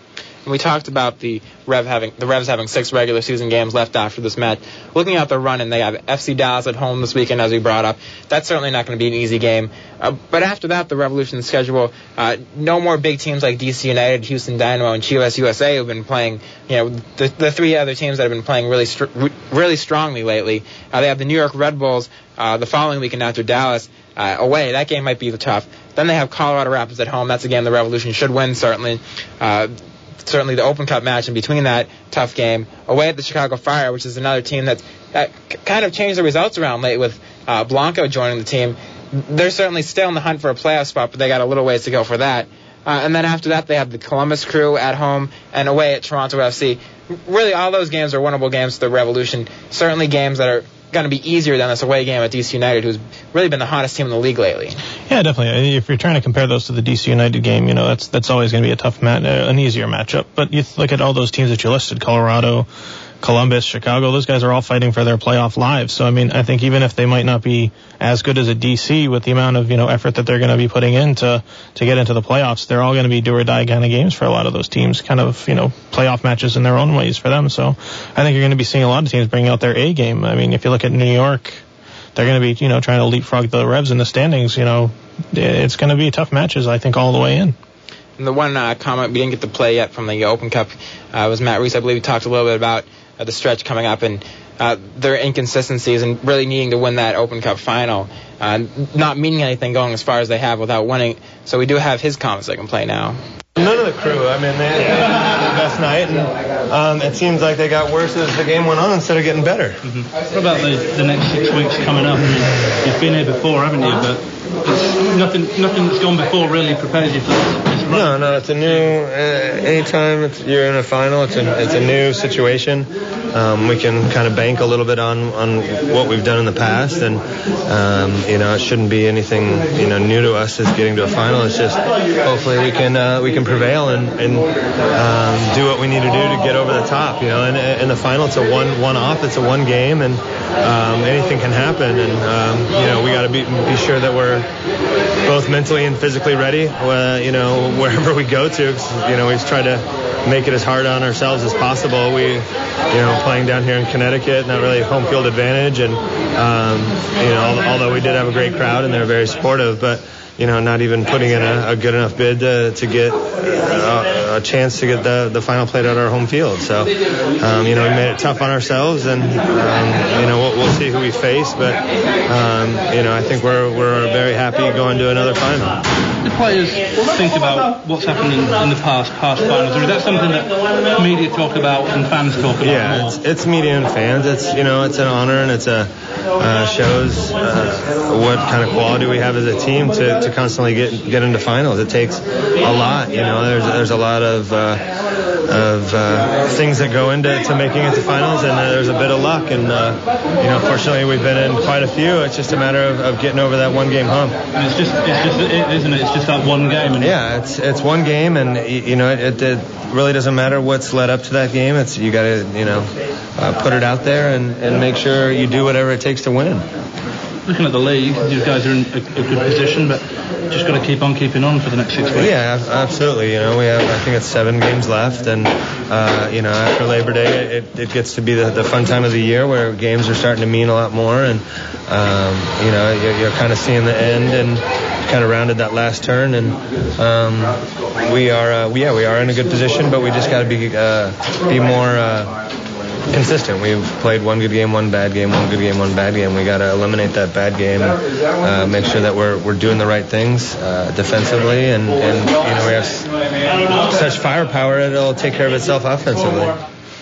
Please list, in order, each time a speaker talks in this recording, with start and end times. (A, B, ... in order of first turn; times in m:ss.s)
0:00.4-0:29.7 A
0:30.2-0:54.8 A
0:55.1-1:02.7 B
1:03.2-1:21.6 B
1:22.1-1:27.6 B
1:28.2-1:43.2 A
1:43.6-1:49.8 C
1:49.8-1:58.1 D
1:57.9-2:24.5 C
2:25.2-2:55.8 C
2:56.2-3:03.2 D
3:02.6-3:14.8 C
3:15.4-3:24.4 C
3:24.6-3:27.1 D
3:27.0-3:36.7 C
3:37.4-3:42.3 D
3:42.1-4:02.3 C
4:03.1-4:13.1 C
4:13.7-4:16.6 C